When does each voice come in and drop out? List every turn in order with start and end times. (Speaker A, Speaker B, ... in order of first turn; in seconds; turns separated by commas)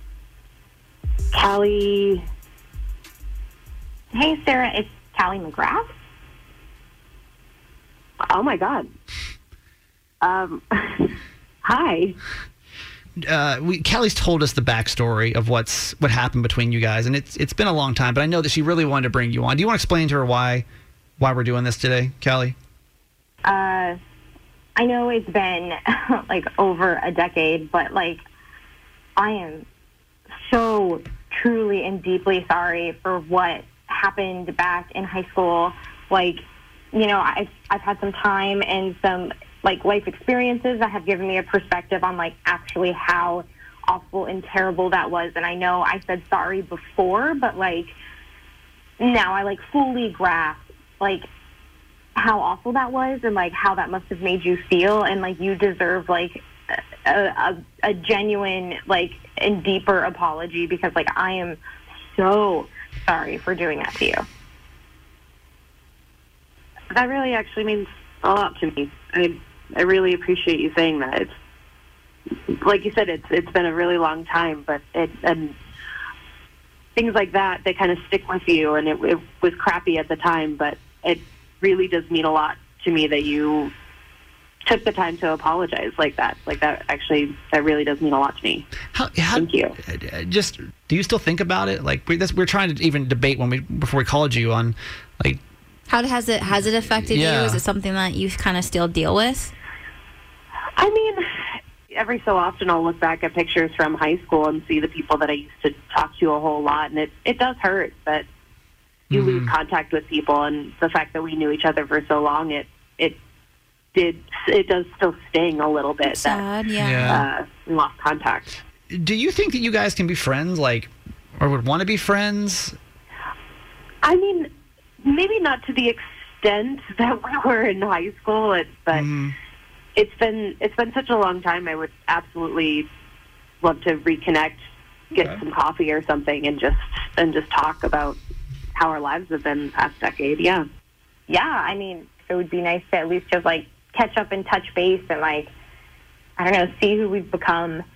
Speaker A: 1.3-2.2, Speaker B: 4.1-5.9, Speaker A: 8.3-8.9, Speaker A: 10.2-11.1, Speaker A: 11.6-12.2, Speaker C: 13.2-20.6, Speaker C: 21.2-22.6, Speaker B: 23.4-24.0, Speaker B: 24.8-28.2, Speaker B: 29.2-29.7, Speaker B: 30.5-48.0, Speaker B: 49.0-51.2, Speaker B: 52.2-56.5, Speaker B: 57.1-61.6, Speaker B: 62.1-64.2, Speaker A: 66.9-71.3, Speaker A: 72.6-75.6, Speaker A: 77.0-83.7, Speaker A: 84.7-88.7, Speaker C: 88.9-95.4, Speaker A: 89.3-89.8, Speaker D: 95.9-99.5, Speaker C: 97.1-97.6, Speaker A: 100.8-101.2, Speaker A: 101.9-108.3, Speaker C: 109.1-109.5, Speaker A: 109.1-113.2, Speaker A: 113.9-116.5, Speaker D: 116.5-117.0, Speaker C: 116.8-117.3, Speaker A: 117.1-118.6, Speaker C: 118.9-122.8, Speaker A: 124.0-124.5, Speaker A: 125.0-129.1, Speaker C: 128.9-129.3, Speaker A: 130.0-132.9, Speaker A: 133.6-138.2, Speaker C: 135.1-135.4, Speaker A: 138.8-140.7, Speaker B: 141.3-145.5, Speaker B: 146.4-147.8